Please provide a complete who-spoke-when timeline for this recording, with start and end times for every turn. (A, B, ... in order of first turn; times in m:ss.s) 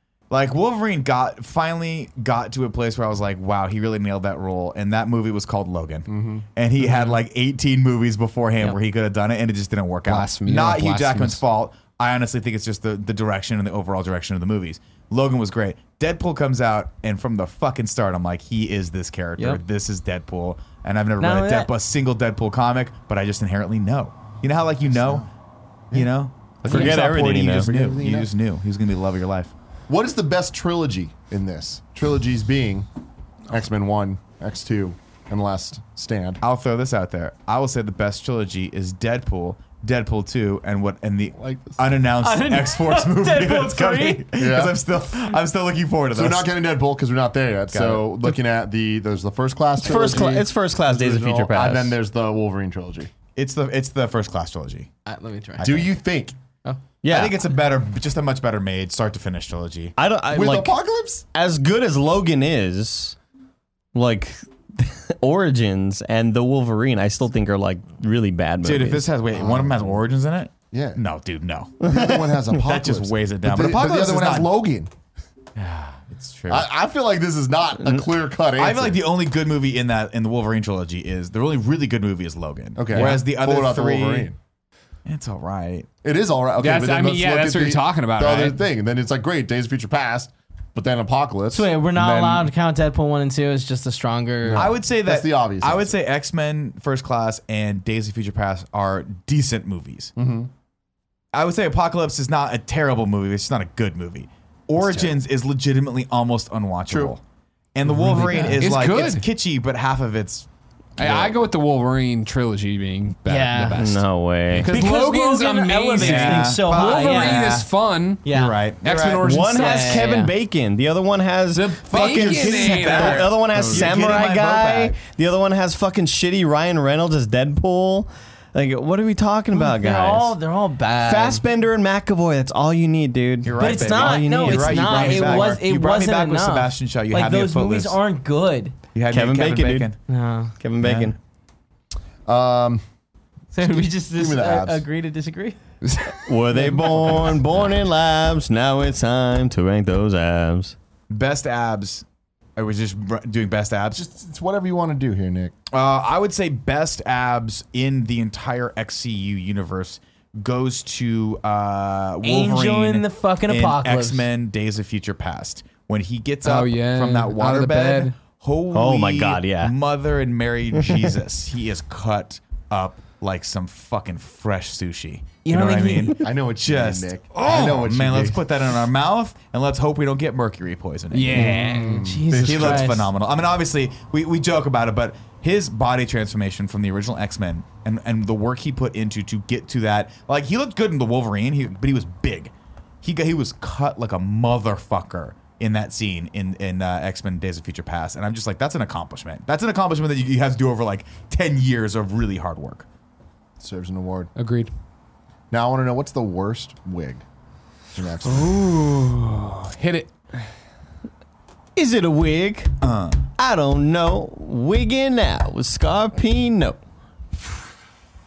0:00.3-0:25.3 A
0:06.1-0:06.4 B
0:10.1-0:11.4 C
0:21.2-0:21.7 D
0:25.0-0:25.2 B
0:25.9-0:29.5 A
0:26.6-0:27.7 E
0:26.7-0:28.3 B
0:29.9-0:32.9 B
0:33.5-0:36.4 B
0:36.4-0:46.5 A
0:41.4-0:41.8 B
0:42.2-0:44.3 D
0:44.4-0:44.8 B
0:46.1-0:53.1 B
0:47.7-0:48.3 A
0:49.8-0:52.0 E
0:53.3-0:54.9 A
0:55.1-0:56.0 D
0:55.6-0:56.4 B
0:57.0-0:57.4 E
0:57.1-1:00.0 A
1:00.0-1:00.8 E
1:00.3-1:01.2 B
1:01.3-1:03.2 E
1:03.9-1:09.1 E
1:08.6-1:11.7 A
1:09.3-1:10.0 B
1:10.7-1:11.0 B
1:11.8-1:14.9 B
1:11.8-1:12.3 E
1:12.6-1:14.5 A
1:15.6-1:16.7 A
1:16.5-1:19.0 B
1:18.6-1:24.3 A
1:22.8-1:24.4 B
1:25.1-1:25.9 A
1:26.0-1:32.5 B
1:26.6-1:28.6 C
1:31.5-1:34.7 D
1:34.4-1:36.0 B
1:34.5-1:40.1 A
1:40.2-1:40.5 B
1:41.3-1:47.2 A
1:44.8-1:45.1 B
1:46.9-1:47.1 B
1:47.7-1:50.5 A
1:47.9-1:48.6 D
1:48.6-1:49.2 C
1:51.0-1:58.2 C
1:51.0-1:51.3 A
1:53.3-1:53.8 D
1:53.8-1:54.7 E
1:54.7-1:57.6 D
1:56.0-1:57.7 A
1:58.2-1:58.6 D
1:58.3-1:59.2 A
1:58.8-2:00.1 C
1:59.2-2:10.4 E
1:59.4-2:00.3 D
2:01.5-2:04.0 C
2:01.8-2:05.0 A
2:09.5-2:11.4 D
2:11.0-2:15.6 E
2:13.4-2:18.0 A
2:13.6-2:18.8 D
2:18.9-2:20.0 A
2:19.1-2:19.9 E
2:20.1-2:20.5 D
2:20.6-2:21.2 E
2:20.8-2:21.1 A
2:22.3-2:22.8 B
2:23.5-2:25.6 D
2:23.6-2:24.8 B
2:25.8-2:26.8 C
2:26.3-2:30.8 E
2:31.1-2:32.0 A
2:32.6-2:34.0 A
2:33.9-2:35.5 B
2:35.7-3:01.6 A
2:42.2-2:44.3 D
2:46.4-2:48.2 C
2:48.7-2:49.8 E
2:55.4-2:56.2 D
2:56.2-2:58.4 B
2:57.3-2:57.8 C
3:01.1-3:02.1 C
3:01.3-3:03.1 B
3:01.3-3:03.1 D
3:02.4-3:22.9 A
3:23.6-3:24.3 B
3:24.4-3:24.7 C
3:25.5-3:27.2 B
3:28.0-3:28.5 B
3:28.2-3:30.5 C
3:31.8-3:32.8 E
3:32.8-3:33.2 A
3:33.4-3:36.8 E